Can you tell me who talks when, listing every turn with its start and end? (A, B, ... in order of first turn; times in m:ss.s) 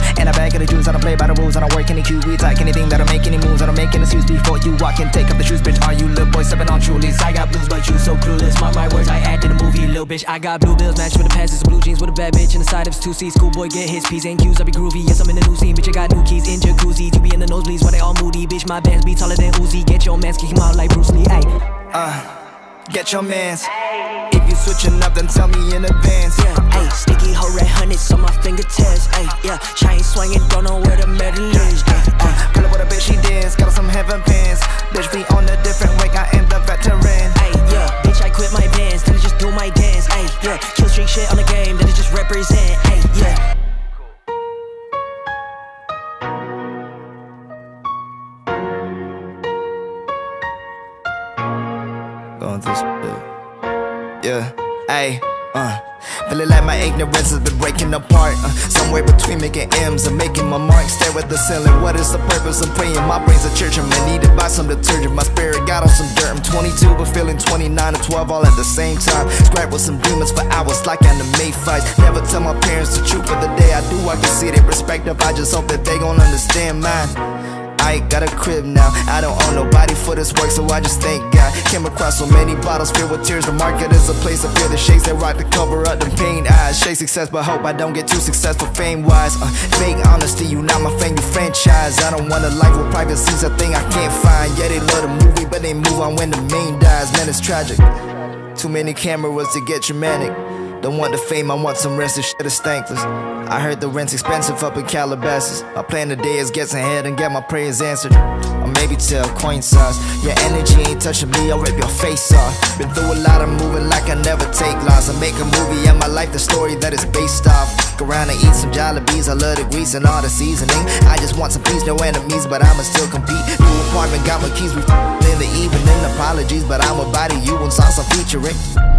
0:00.1-0:07.3 A
0:07.0-0:21.5 B
0:21.9-0:23.8 A
0:24.3-0:26.6 A
0:26.4-0:32.5 B
0:32.1-0:37.4 A
0:37.4-0:43.4 B
0:52.4-0:53.2 A
0:54.2-1:17.2 A
1:17.8-1:37.9 A
1:38.4-2:08.6 A